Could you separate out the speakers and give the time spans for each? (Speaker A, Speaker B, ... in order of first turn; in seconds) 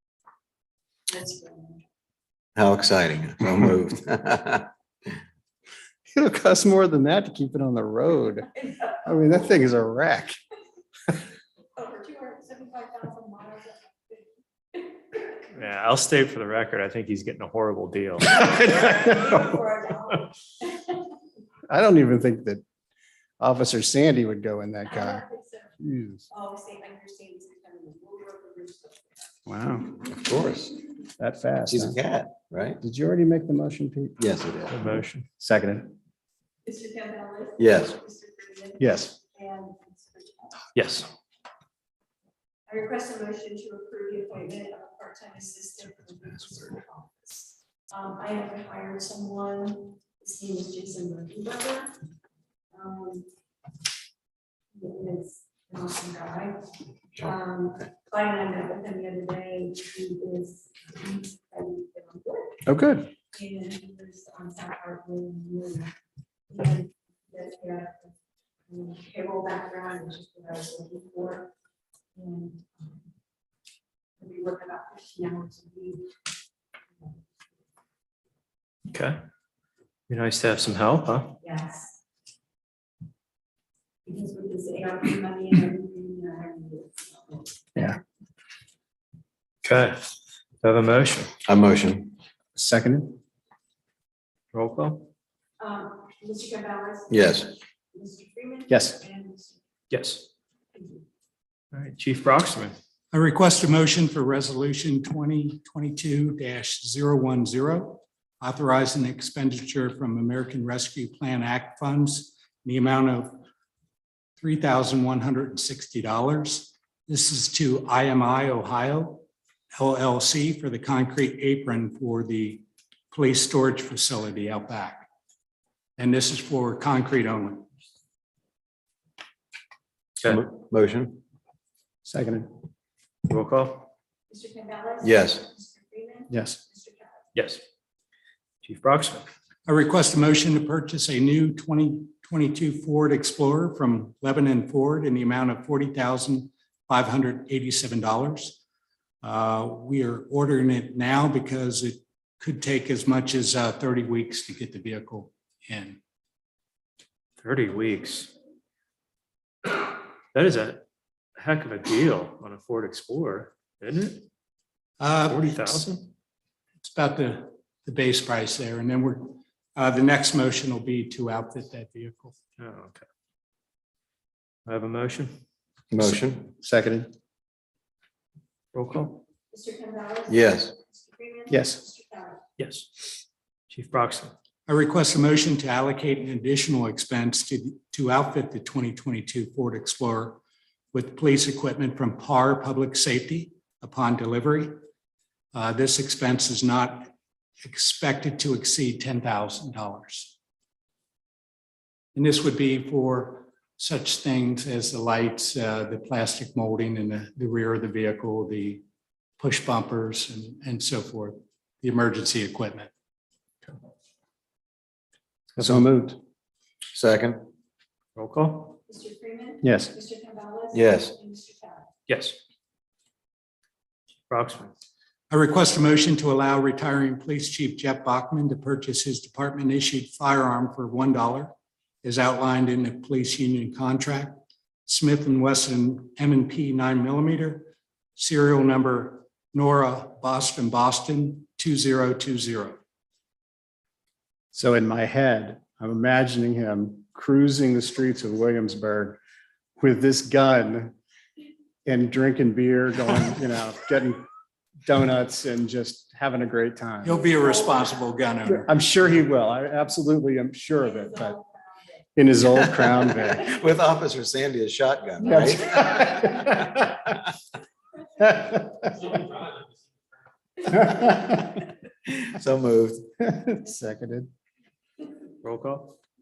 Speaker A: 1.1-1.8, 11.8-14.9, 18.4-20.9, 24.9-25.8, 26.3-29.4, 36.6-40.7, 42.7-52.0, 52.7-53.3, 54.7-56.7, 57.2-62.7, 63.3-65.9, 66.5-68.1, 68.7-71.5, 72.2-73.0, 74.2-76.1, 81.4-82.0, 84.0-87.5, 95.6-99.6, 100.8-101.0, 134.3-137.2, 179.5-182.4, 218.9-221.9, 257.2-258.2, 260.8-262.1
Speaker B: 2.6-4.7, 30.2-30.8, 31.7-32.8, 34.2-34.8, 37.6-38.0, 91.5-92.1, 97.1-97.5, 130.2-131.2, 135.0-135.4, 175.9-176.5, 180.3-180.7, 216.9-217.5, 220.7-221.1, 263.2-266.1, 272.1-273.1
Speaker C: 6.1-8.5, 9.1-10.4, 21.7-22.6, 23.4-25.2, 25.8-26.3, 29.5-30.0, 31.2-32.0, 32.8-34.2, 35.4-35.9, 38.8-39.1, 62.7-63.1, 92.6-93.2, 98.7-99.0, 132.1-132.5, 136.3-136.6, 176.0-177.1, 181.5-181.8, 215.6-216.2, 219.6-219.9, 244.5-249.2, 249.8-250.9, 251.9-254.2, 254.8-257.2, 258.5-261.4, 262.2-263.5, 265.2-266.9, 268.2-268.9, 270.9-271.3, 273.2-274.3
Speaker D: 15.5-19.4, 34.7-35.3, 40.7-41.1, 78.9-79.2, 80.1-81.4, 89.6-91.3, 94.5-95.1, 99.9-100.3, 101.7-102.8, 133.3-133.9, 137.3-137.6, 138.6-139.3, 157.4-158.3, 159.7-160.8, 161.4-164.3, 165.3-166.1, 172.6-173.0, 174.7-175.4, 178.7-179.2, 182.6-183.1, 183.7-184.3, 218.2-218.8, 222.1-222.4, 224.3-224.7, 275.4-276.0
Speaker E: 103.1-113.4, 114.4-125.1, 126.0-127.7, 139.7-148.6, 149.2-156.0, 165.0-165.9, 166.8-172.4, 184.7-190.4, 190.9-194.8, 195.5-200.3, 202.2-208.8, 209.4-212.9, 225.3-242.8, 257.0-258.7